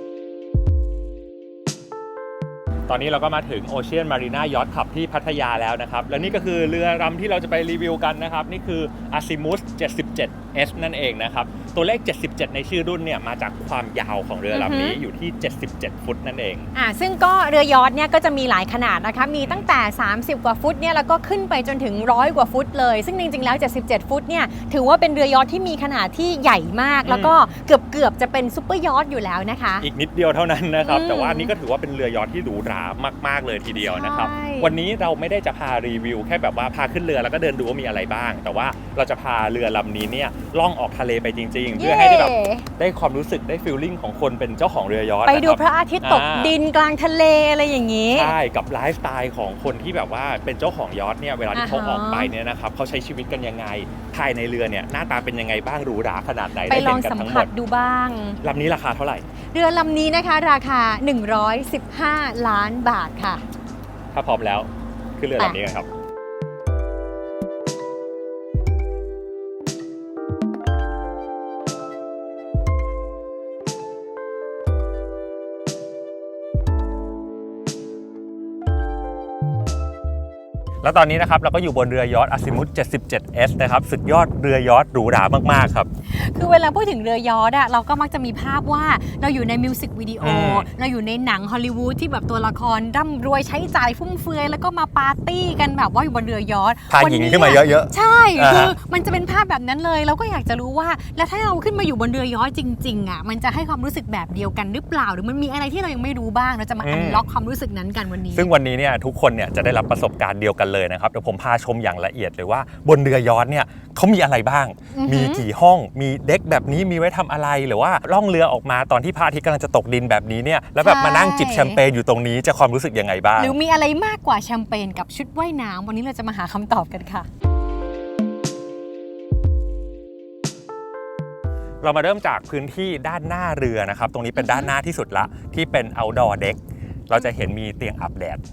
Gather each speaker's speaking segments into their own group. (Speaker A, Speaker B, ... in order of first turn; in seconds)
Speaker A: 2.9-16.7, 19.4-19.7, 27.1-27.4, 29.8-46.5, 48.1-57.5, 58.4-59.2, 64.1-65.9, 80.8-85.9, 90.2-90.7, 96.9-98.7, 106.8-107.2, 108.3-123.5, 131.8-138.4
Speaker B: 14.5-15.0, 16.8-29.9, 30.8-31.5, 33.8-34.7, 41.8-42.7, 45.3-48.3, 51.5-52.3, 56.7-58.4, 59.5-63.4, 86.1-108.5, 114.9-115.4, 120.8-121.8, 123.4-127.3, 134.4-134.7